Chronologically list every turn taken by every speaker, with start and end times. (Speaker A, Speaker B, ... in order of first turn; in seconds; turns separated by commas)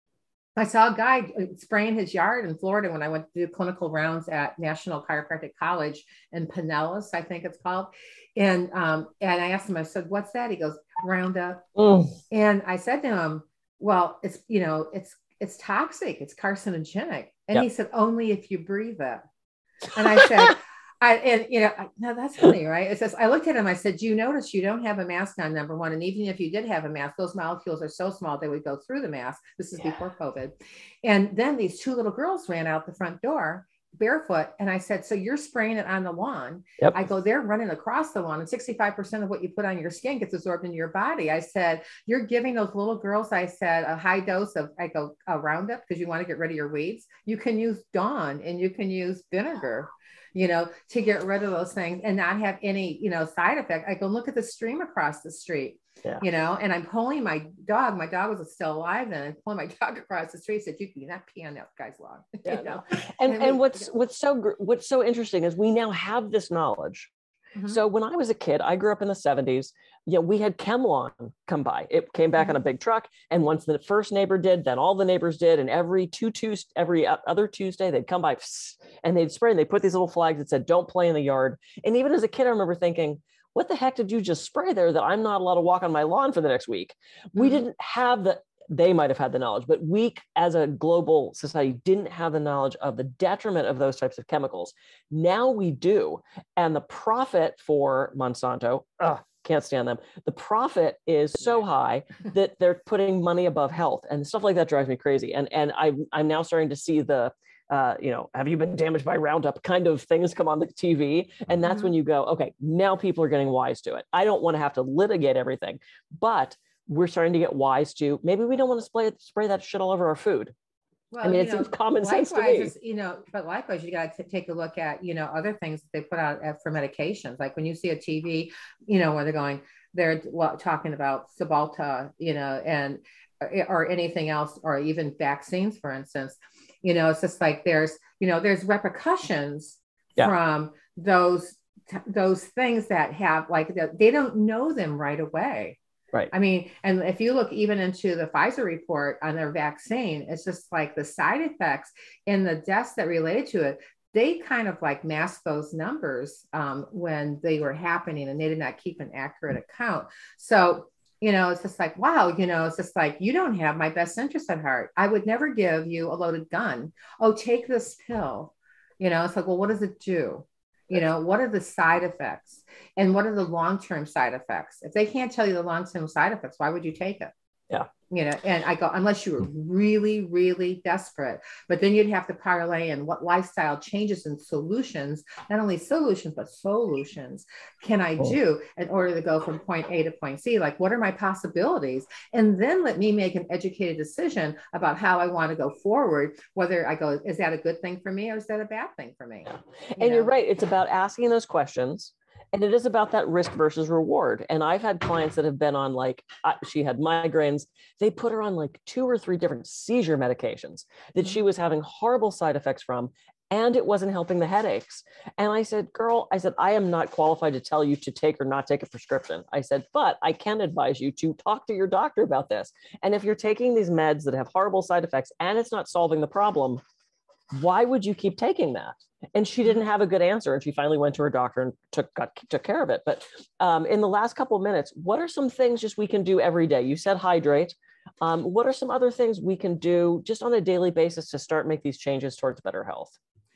Speaker A: 0.6-11.6, Speaker B: 11.8-12.1, Speaker A: 12.3-19.2, Speaker A: 19.9-63.9, Speaker B: 62.5-67.1, Speaker A: 67.5-67.8, Speaker B: 67.7-120.5, Speaker A: 87.3-87.6, Speaker A: 111.6-111.9, Speaker A: 121.1-145.8, Speaker B: 121.2-122.7, Speaker A: 146.3-177.3, Speaker A: 178.1-200.3, Speaker B: 199.5-226.8, Speaker B: 227.5-243.2